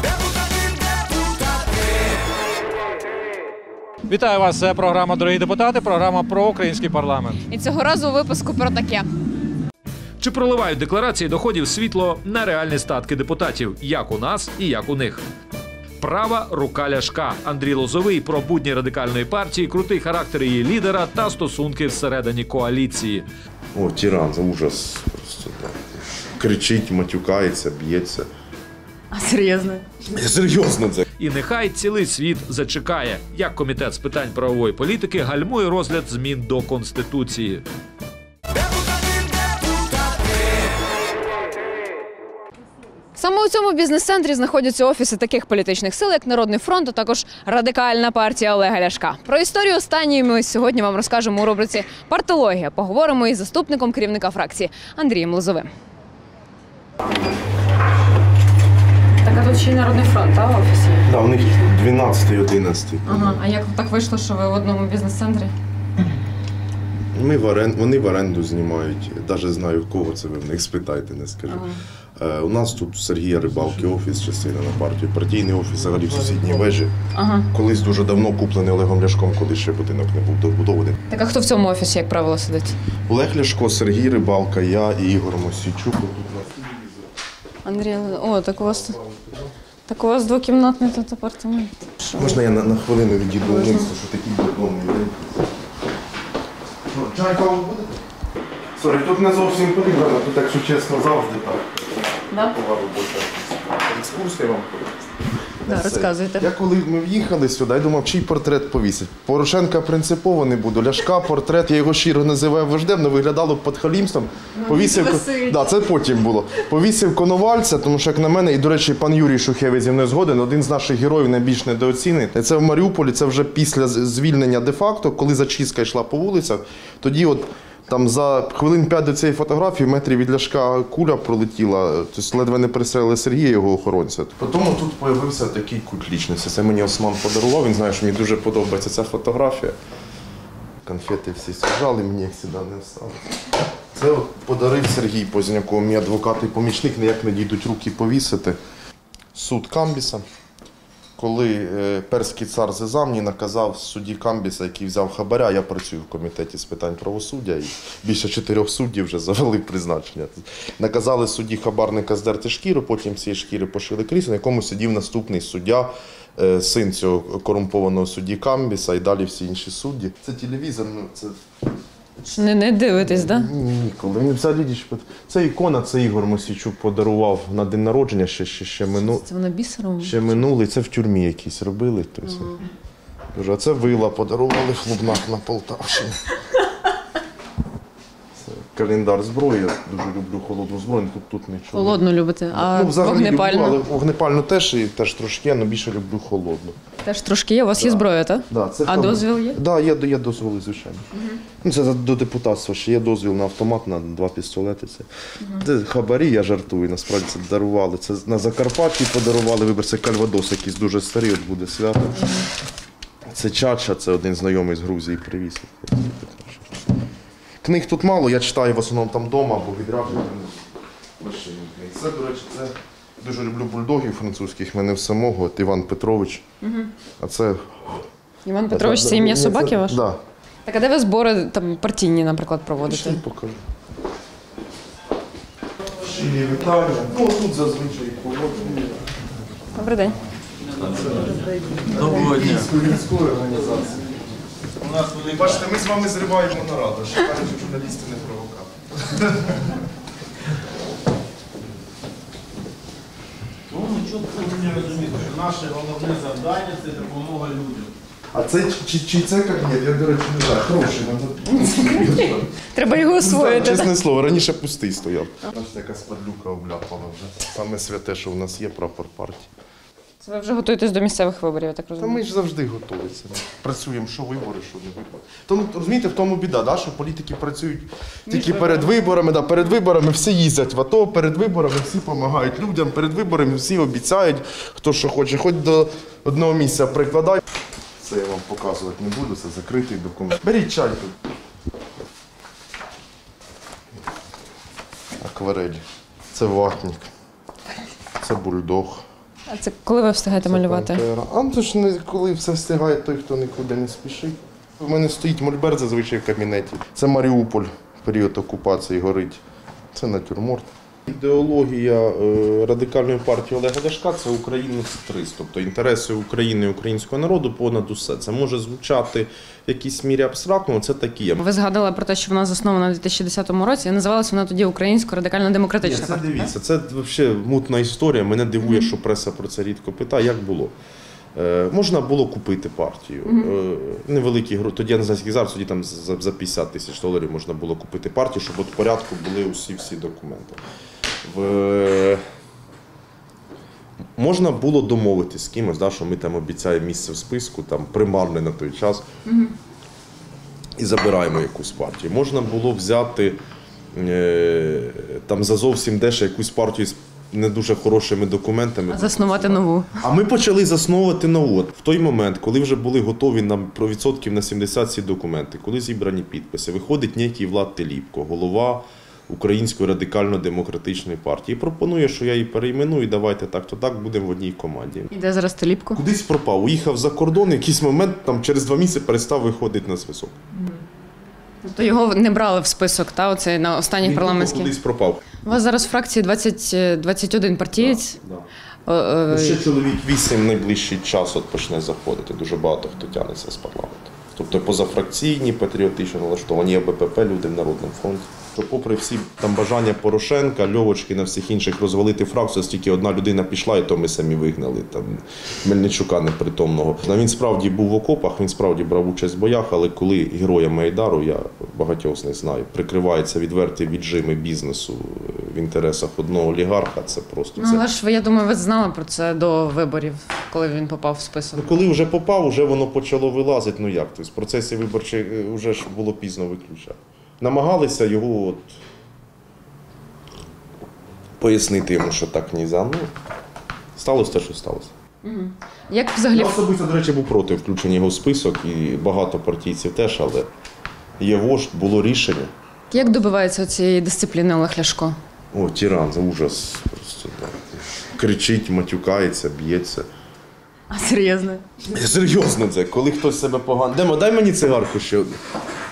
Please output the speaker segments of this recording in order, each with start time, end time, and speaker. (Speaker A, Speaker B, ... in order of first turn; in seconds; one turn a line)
Speaker A: 4.1-7.4
Speaker B: 7.5-9.1
Speaker C: 10.2-15.2
Speaker C: 16.0-23.2
Speaker D: 23.7-25.8
Speaker D: 26.4-28.3
Speaker B: 29.1-29.9
Speaker D: 30.1-31.1
Speaker C: 31.2-37.6
Speaker B: 43.2-55.7
Speaker B: 59.2-61.1
Speaker D: 61.1-63.4
Speaker B: 63.0-65.5
Speaker D: 67.2-76.9
Speaker B: 71.5-71.8
Speaker B: 77.1-77.5
Speaker D: 77.5-81.0
Speaker B: 81.1-82.8
Speaker D: 83.1-86.8
Speaker B: 87.7-89.0
Speaker D: 88.1-89.5
Speaker B: 89.9-92.4
Speaker D: 92.2-95.4
Speaker B: 93.4-93.9
Speaker D: 96.9-98.0
Speaker D: 98.8-139.8
Speaker B: 102.3-102.5
Speaker B: 105.7-106.5
Speaker B: 114.5-115.7
Speaker D: 140.8-143.2
Speaker D: 143.9-148.6
Speaker D: 149.3-150.2
Speaker D: 151.2-171.4
Speaker B: 172.2-173.5
Speaker D: 173.0-179.2
Speaker B: 178.9-180.4
Speaker D: 180.0-182.5
Speaker B: 182.3-182.6
Speaker D: 183.3-186.2
Speaker D: 188.4-196.8
Speaker B: 191.7-193.8
Speaker B: 197.0-199.6
Speaker D: 197.8-201.1
Speaker B: 201.1-201.4
Speaker D: 201.6-212.2
Speaker B: 212.1-212.5
Speaker D: 213.2-216.7
Speaker D: 217.6-220.7
Speaker D: 221.2-226.4
Speaker B: 226.6-226.9
Speaker D: 227.2-228.0
Speaker B: 228.4-230.0
Speaker D: 228.7-230.2
Speaker B: 230.7-233.2
Speaker D: 232.8-233.6
Speaker D: 236.0-238.9
Speaker B: 239.8-240.2
Speaker D: 240.9-244.0
Speaker E: 242.0-242.7
Speaker E: 244.9-245.4
Speaker D: 245.2-249.7
Speaker E: 253.7-257.9
Speaker D: 258.3-269.5
Speaker B: 261.5-263.9
Speaker B: 270.2-272.2
Speaker D: 272.0-287.4
Speaker B: 278.3-279.1
Speaker D: 288.0-291.2
Speaker D: 295.2-297.1
Speaker D: 298.2-299.1
Speaker B: 299.5-301.0
Speaker D: 300.4-309.4
Speaker D: 309.9-321.4
Speaker B: 321.4-326.5
Speaker D: 325.8-330.7
Speaker B: 328.6-328.9
Speaker D: 331.4-340.6
Speaker B: 333.2-333.5
Speaker D: 341.2-342.2
Speaker D: 344.2-349.0
Speaker B: 349.3-349.5
Speaker D: 350.8-353.4
Speaker D: 353.9-375.1
Speaker B: 358.9-359.9
Speaker B: 375.1-376.0
Speaker D: 375.9-380.4
Speaker B: 380.6-380.8
Speaker B: 381.6-384.7
Speaker D: 384.0-385.2
Speaker B: 385.4-388.2
Speaker D: 387.8-388.5
Speaker B: 388.9-389.6
Speaker D: 389.3-417.9
Speaker B: 417.6-421.8
Speaker D: 421.6-428.8
Speaker D: 431.4-433.1
Speaker D: 434.0-434.9
Speaker B: 435.2-436.6
Speaker D: 436.3-440.5
Speaker D: 441.2-442.5
Speaker B: 442.9-445.2
Speaker D: 445.5-450.1
Speaker B: 450.9-451.9
Speaker D: 451.9-455.4